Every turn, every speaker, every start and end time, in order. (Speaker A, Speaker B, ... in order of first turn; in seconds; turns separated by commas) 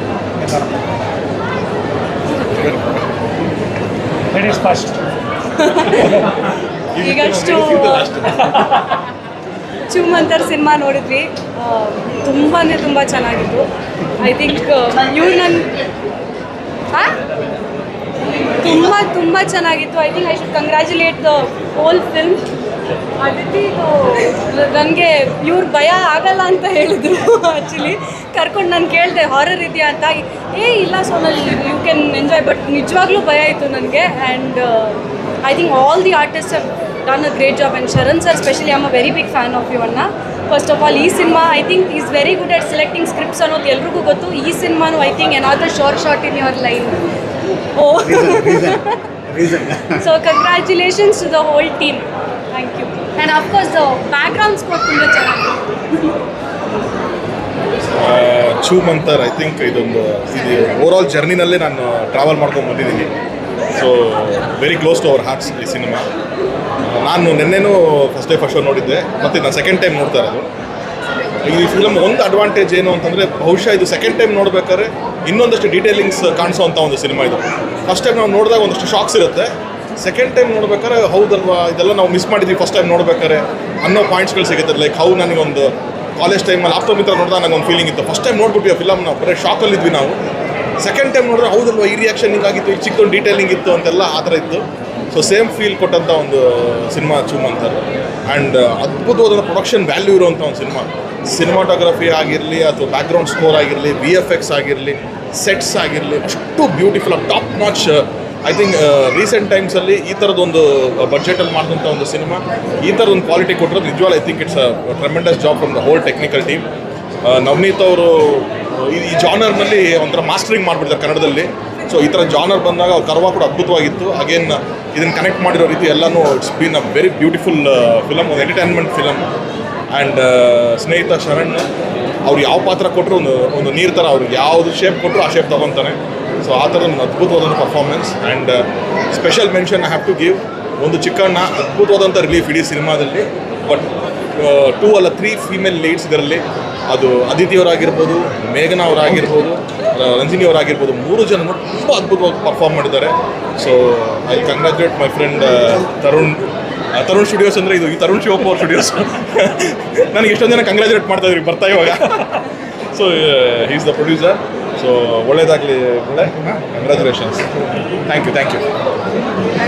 Speaker A: 0.4-0.8, Speaker B: 2.6-3.0, Speaker A: 4.3-5.1, Speaker C: 5.5-6.2, Speaker B: 6.9-8.8, Speaker C: 7.0-8.1, Speaker C: 9.9-15.7, Speaker C: 18.6-22.4, Speaker C: 23.2-47.0, Speaker C: 47.7-49.0, Speaker A: 48.0-50.0, Speaker C: 50.0-55.6, Speaker B: 58.0-63.1, Speaker B: 63.7-66.0, Speaker B: 66.8-70.5, Speaker B: 71.5-90.2, Speaker B: 90.8-116.7, Speaker B: 117.2-129.3, Speaker B: 129.9-131.7, Speaker B: 132.2-167.4, Speaker B: 168.1-168.6